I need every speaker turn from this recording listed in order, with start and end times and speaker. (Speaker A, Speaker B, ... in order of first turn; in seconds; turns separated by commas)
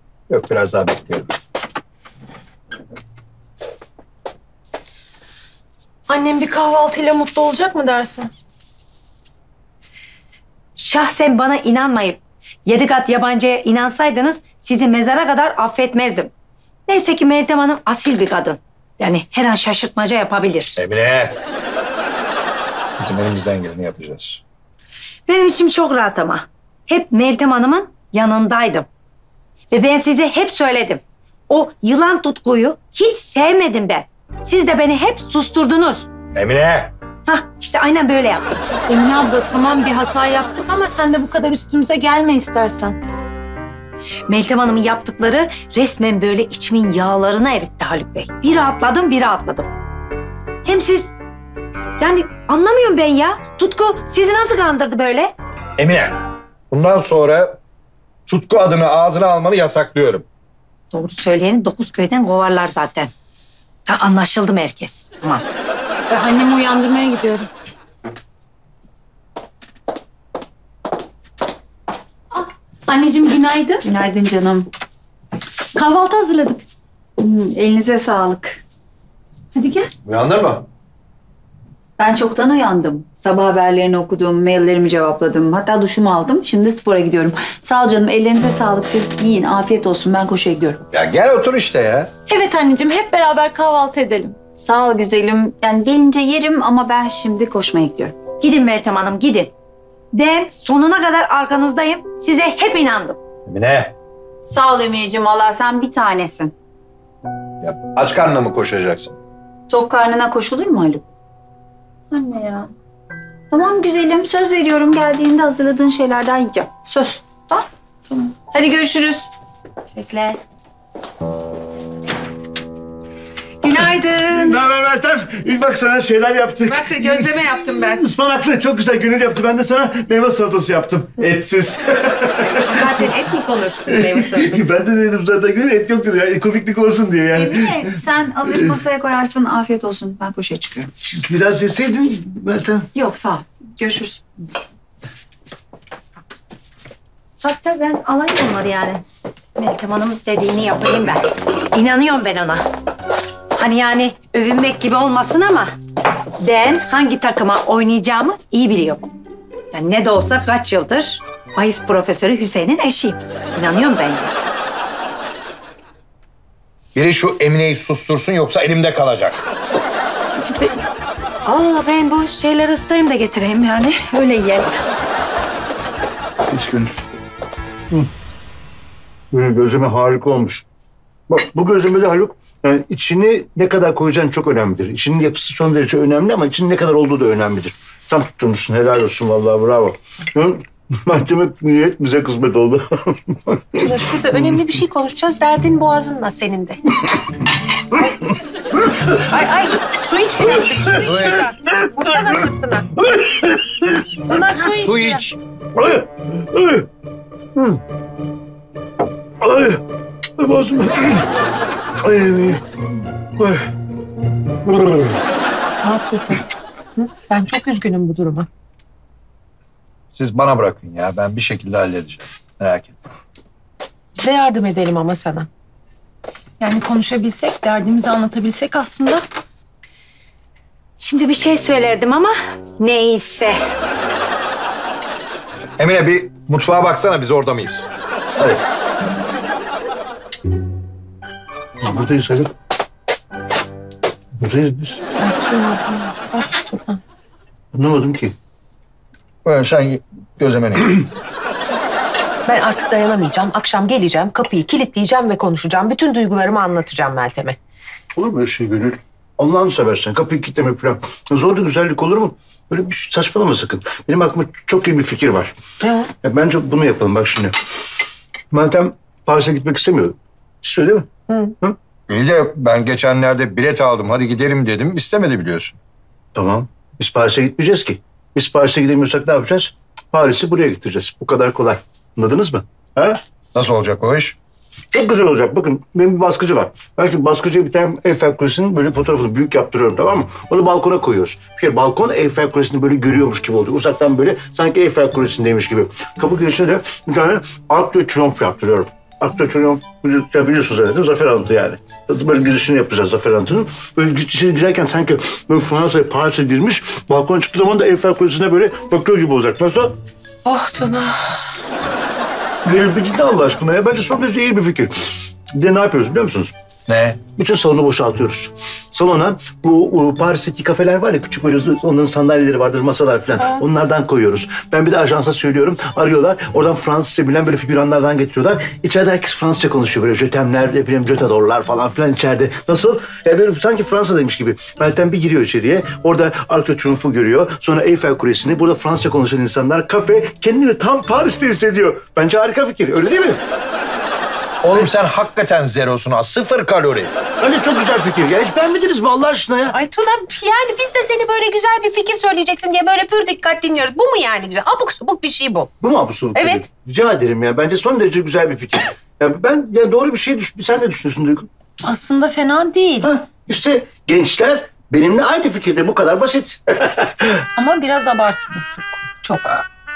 Speaker A: 0.3-1.3, Speaker B: 6.1-8.3, Speaker C: 10.8-16.3, Speaker C: 16.9-20.8, Speaker A: 20.8-21.4, Speaker A: 23.0-24.4, Speaker C: 25.3-28.9, Speaker C: 29.7-36.1, Speaker A: 36.3-36.9, Speaker C: 37.3-38.8, Speaker B: 38.9-43.0, Speaker C: 44.3-49.7, Speaker C: 50.6-51.1, Speaker C: 52.0-55.3, Speaker A: 55.8-56.2, Speaker A: 56.7-57.6, Speaker A: 58.3-60.2, Speaker C: 60.9-63.1, Speaker C: 63.9-65.4, Speaker B: 66.1-67.5, Speaker B: 72.3-73.8, Speaker D: 73.8-74.7, Speaker D: 75.7-76.6, Speaker D: 77.2-78.6, Speaker B: 79.5-79.9, Speaker A: 80.0-80.7, Speaker D: 82.0-90.8, Speaker A: 90.9-92.1, Speaker B: 92.3-94.4, Speaker D: 94.5-98.2, Speaker C: 98.4-99.5, Speaker C: 100.1-103.2, Speaker A: 103.5-103.9, Speaker D: 104.5-106.5, Speaker A: 107.6-109.1, Speaker D: 109.7-111.0, Speaker B: 112.1-112.7, Speaker D: 113.5-119.3, Speaker B: 120.0-120.4, Speaker E: 123.7-133.0, Speaker F: 126.7-128.0, Speaker F: 132.4-134.8, Speaker E: 133.9-137.8, Speaker D: 137.3-140.9, Speaker E: 141.0-142.9, Speaker D: 142.9-144.2, Speaker C: 147.4-149.0, Speaker C: 149.6-152.7, Speaker C: 153.6-155.8, Speaker C: 156.4-159.0, Speaker C: 159.7-164.3, Speaker A: 166.9-169.4, Speaker C: 170.3-170.8, Speaker C: 171.4-174.8, Speaker E: 176.5-177.0, Speaker E: 179.3-180.6, Speaker E: 181.3-193.8, Speaker F: 193.8-196.8, Speaker F: 199.1-203.0, Speaker A: 200.5-201.4, Speaker E: 203.1-203.9, Speaker F: 204.2-205.3, Speaker A: 204.8-205.3, Speaker E: 205.8-206.8, Speaker E: 207.6-207.8, Speaker E: 209.4-209.8, Speaker E: 210.4-211.3, Speaker E: 212.0-212.7, Speaker E: 213.4-213.7, Speaker E: 214.7-215.2, Speaker F: 215.8-216.4, Speaker F: 217.0-218.5, Speaker A: 220.1-223.0, Speaker F: 224.2-225.5, Speaker B: 226.6-229.2, Speaker C: 231.0-233.6, Speaker A: 235.8-237.8, Speaker A: 238.4-238.6, Speaker E: 241.8-242.5, Speaker E: 244.4-245.0, Speaker F: 245.2-247.0, Speaker E: 247.7-248.3, Speaker A: 249.4-251.1, Speaker F: 252.4-257.6, Speaker E: 258.1-265.5, Speaker F: 265.8-266.1, Speaker E: 266.2-267.5, Speaker E: 268.5-271.1, Speaker F: 271.3-271.6, Speaker A: 272.1-275.8, Speaker E: 276.3-283.2, Speaker A: 283.5-284.4, Speaker E: 284.9-310.0, Speaker F: 310.4-311.3, Speaker E: 312.6-314.9, Speaker E: 315.5-316.6, Speaker A: 316.9-317.2, Speaker E: 317.2-343.4, Speaker A: 344.6-347.1, Speaker E: 347.4-349.8, Speaker F: 349.7-355.8, Speaker E: 355.8-361.5, Speaker F: 356.3-356.6, Speaker B: 361.8-363.1, Speaker E: 363.0-367.4, Speaker B: 367.6-369.2